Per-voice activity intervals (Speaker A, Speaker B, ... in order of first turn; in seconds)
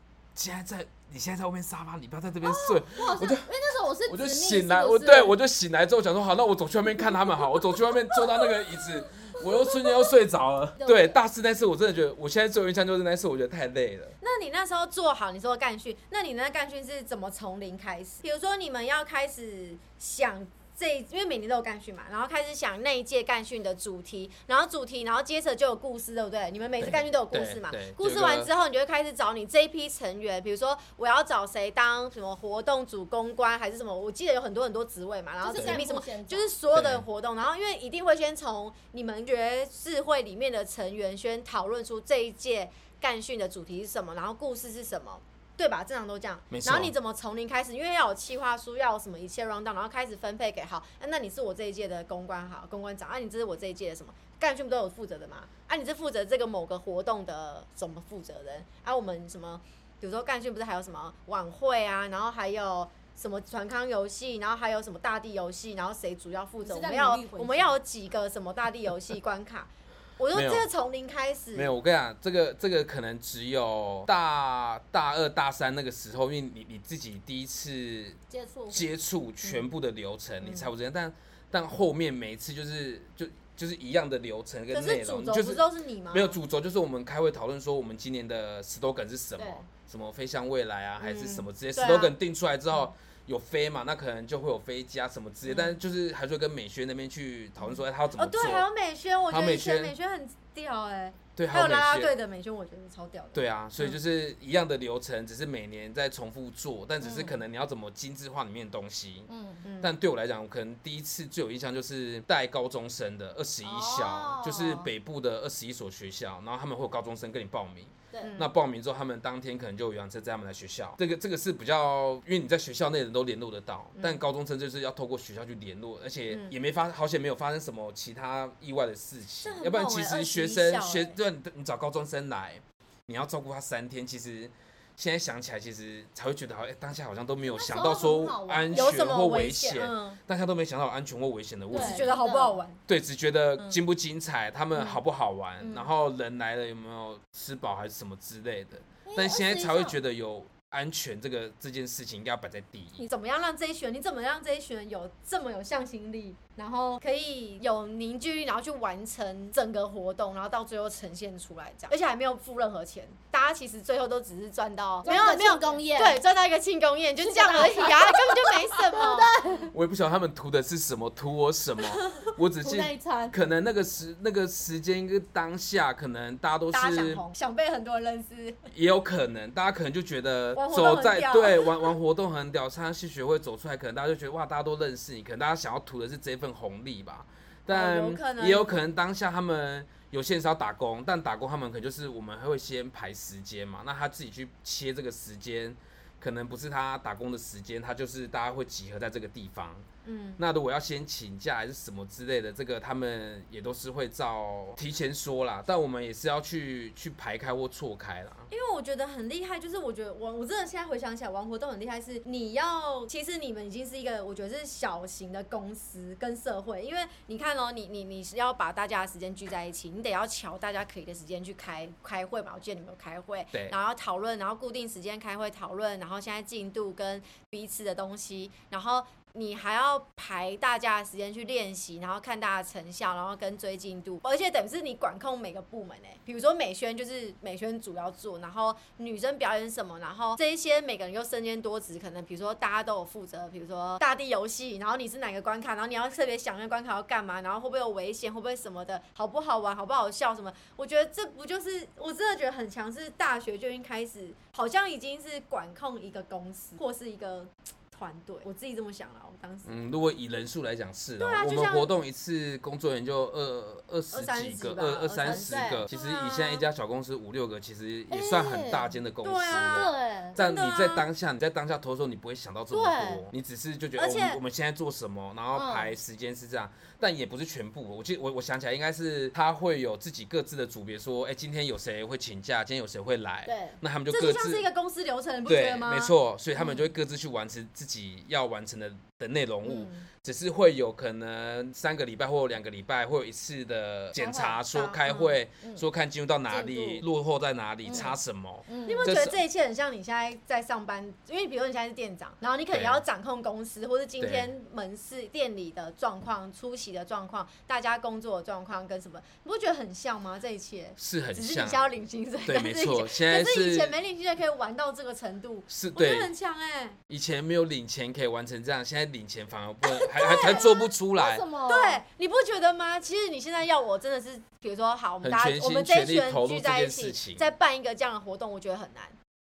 Speaker A: 0.3-3.5, 4.1-14.2, 26.8-28.5, 35.5-35.8, 36.7-37.0, 46.5-46.9, 70.3-70.7, 71.5-78.2, 78.7-98.7, 99.3-99.9, 101.4-102.2, 103.3-142.2, 142.9-153.0, 169.7-177.2, 178.7-199.8, 200.4-208.5, 259.6-284.7, 285.5-299.4, 302.7-303.0, 304.2-304.5, 311.0-311.9, 312.4-313.9, 315.7-316.3, 317.1-321.4, 325.2-327.5
Speaker B: 2.4-5.3, 7.0-7.6, 8.1-10.1, 10.8-11.2, 35.4-36.5, 66.6-67.8, 78.3-78.9, 107.0-107.4, 109.3-109.6, 113.7-114.9, 137.5-139.0, 141.7-142.6, 149.1-150.0, 165.0-166.2, 167.2-169.7, 172.6-173.4, 265.2-265.9, 268.1-269.0, 269.5-270.4, 272.7-273.3, 275.6-275.9, 283.5-283.8, 294.2-294.6, 296.5-297.0, 297.9-298.1, 298.7-299.1, 320.0-322.0
Speaker C: 14.2-71.7, 80.4-80.7, 84.7-86.4, 91.0-92.2, 95.5-95.8, 97.6-104.0, 109.6-109.9, 118.2-118.5, 124.0-124.2, 126.3-126.5, 129.4-131.2, 138.7-140.2, 141.7-142.8, 145.6-145.9, 153.0-169.4, 171.9-172.3, 176.7-178.6, 180.6-181.9, 187.7-188.8, 200.0-200.4, 208.5-259.9, 261.2-261.9, 264.1-266.7, 269.2-271.1, 274.0-274.4, 284.1-286.9, 289.6-290.1, 294.7-295.4, 298.9-317.0, 320.2-320.9, 321.7-329.2